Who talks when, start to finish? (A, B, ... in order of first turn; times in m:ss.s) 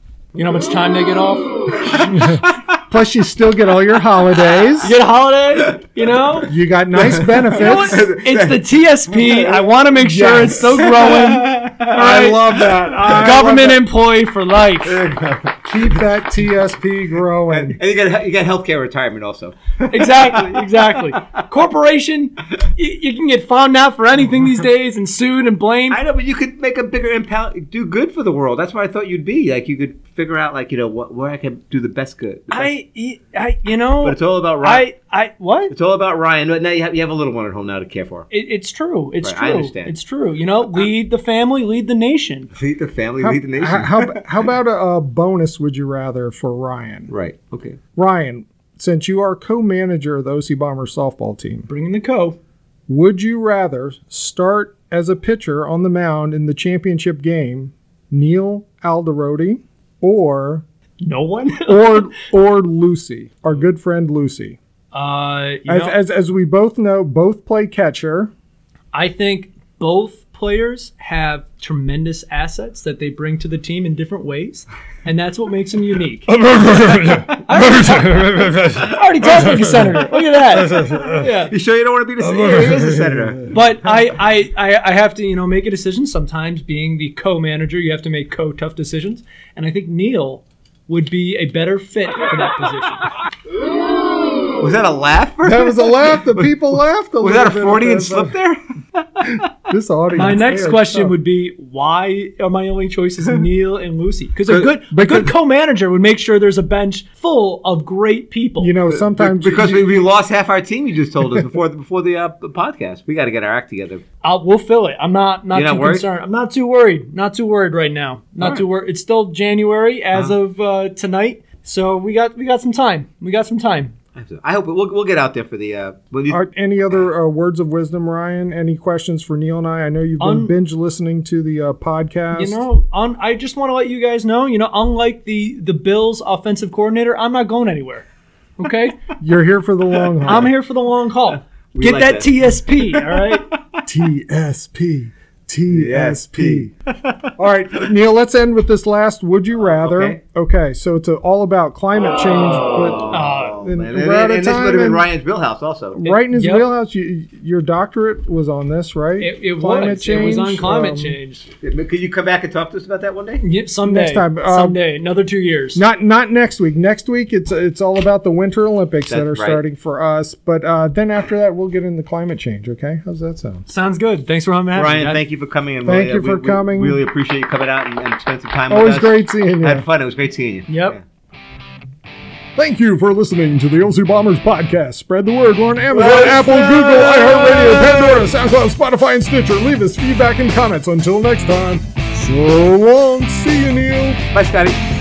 0:00.3-0:02.3 A
0:02.1-0:05.0 B
0:04.8-0:06.5 A
0:06.5-0:08.0 B
0:06.9-0:09.7 C
0:07.5-0:15.0 A
0:10.0-0:11.2 B
0:10.7-0:12.0 C
0:11.8-0:13.8 B
0:14.8-0:15.9 C
0:15.6-0:17.8 B
0:17.5-0:21.2 C
0:19.9-0:26.0 A
0:25.9-0:32.7 C
0:32.5-0:35.7 A
0:34.0-0:34.8 C
0:35.7-0:38.3 C
0:38.3-0:42.5 A
0:39.2-0:39.9 C
0:42.6-0:44.3 C
0:43.2-0:47.1 B
0:47.1-0:47.8 C
0:48.0-0:51.7 B
0:51.7-0:52.4 A
0:52.9-1:00.6 B
1:01.0-1:02.1 A
1:01.6-1:04.6 B
1:04.9-1:06.0 A
1:05.7-1:08.3 B
1:08.9-1:16.4 A
1:16.3-1:21.2 B
1:17.3-1:21.5 A
1:21.5-1:23.5 C
1:22.2-1:23.5 B
1:23.5-1:33.1 A
1:34.6-1:39.5 C
1:35.4-1:38.3 B
1:39.7-1:41.2 B
1:40.1-1:48.8 A
1:44.9-1:45.3 B
1:48.6-1:50.0 B
1:48.9-1:54.0 C
1:54.2-2:03.9 A
1:55.5-1:56.0 C
1:58.4-1:58.6 C
2:04.1-2:06.4 C
2:06.3-2:12.6 B
2:10.2-2:10.5 A
2:12.3-2:18.0 A
2:18.6-2:18.9 A
2:19.2-2:20.5 B
2:20.2-2:23.5 A
2:21.7-2:23.8 C
2:23.8-2:26.7 B
2:25.7-2:27.3 C
2:27.4-2:35.0 B
2:29.8-2:30.2 C
2:32.7-2:36.0 C
2:33.1-2:33.6 A
2:35.9-2:41.2 B
2:36.0-2:36.7 A
2:39.2-2:41.5 A
2:40.0-2:40.3 C
2:41.6-2:43.4 C
2:43.4-2:45.8 A
2:43.8-2:44.8 B
2:45.7-2:53.7 B
2:49.1-2:49.6 C
2:53.7-2:55.2 A
2:54.7-3:01.0 C
2:55.8-2:57.0 B
2:58.7-2:59.8 B
3:00.7-3:01.0 A
3:02.6-3:14.2 B
3:05.9-3:08.2 C
3:14.3-3:14.8 C